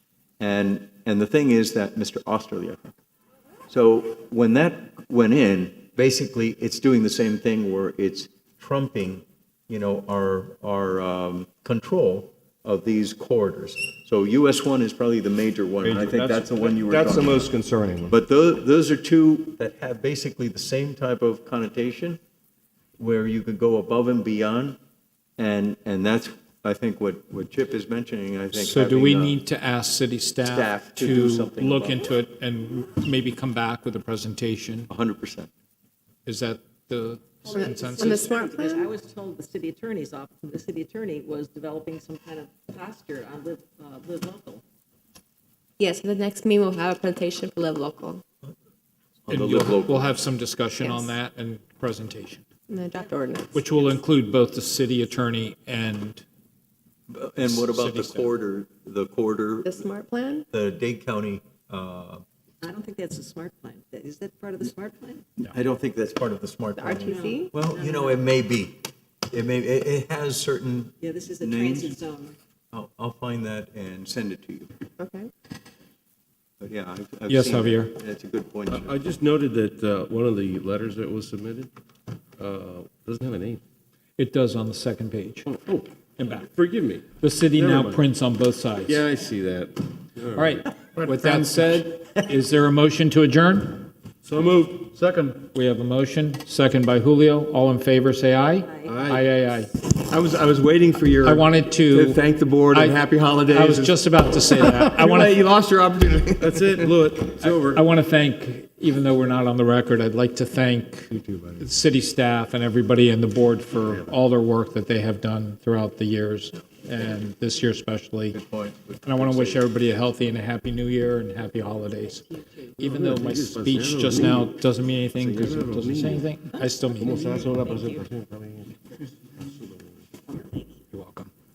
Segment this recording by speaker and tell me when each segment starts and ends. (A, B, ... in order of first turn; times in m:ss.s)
0:00.4-0:03.0 A
0:03.7-0:17.5 A
0:15.8-0:18.1 B
0:18.1-0:22.2 A
0:23.0-0:24.8 A
0:25.4-0:29.4 A
0:28.5-0:34.9 C
0:30.4-0:32.1 A
0:34.9-0:35.5 A
0:36.3-0:38.2 C
0:37.4-0:44.6 D
0:37.5-0:38.9 E
0:45.8-0:48.2 E
0:49.3-0:50.2 A
0:49.3-0:52.4 C
0:50.8-0:51.1 E
0:52.7-0:53.6 E
0:53.5-0:56.2 C
0:57.1-0:59.8 A
0:57.4-0:58.3 C
0:59.6-1:00.4 E
1:00.5-1:02.2 A
1:02.6-1:05.2 D
1:05.4-1:12.0 A
1:06.8-1:07.5 E
1:07.0-1:08.2 D
1:11.0-1:12.4 D
1:12.7-1:14.7 A
1:15.0-1:15.3 E
1:16.6-1:19.0 A
1:17.3-1:17.9 C
1:18.7-1:21.7 F
1:22.4-1:23.6 F
1:24.2-1:25.5 C
1:25.5-1:28.1 F
1:26.2-1:26.5 C
1:27.2-1:29.0 C
1:28.9-1:30.7 F
1:30.4-1:33.9 C
1:31.1-1:31.5 B
1:34.2-1:34.9 F
1:34.9-1:35.4 B
1:35.4-1:39.7 C
1:38.6-1:39.0 D
1:38.9-1:39.2 F
1:39.9-1:46.6 B
1:41.2-1:45.4 C
1:46.4-1:47.9 F
1:47.7-1:58.4 C
1:51.1-1:51.7 F
1:53.8-1:54.1 F
1:58.3-1:59.7 A
1:59.0-2:07.2 C
2:02.8-2:04.6 F
2:05.1-2:06.3 F
2:07.0-2:08.8 F
2:07.0-2:08.0 D
2:09.3-2:10.0 F
2:10.9-2:11.3 C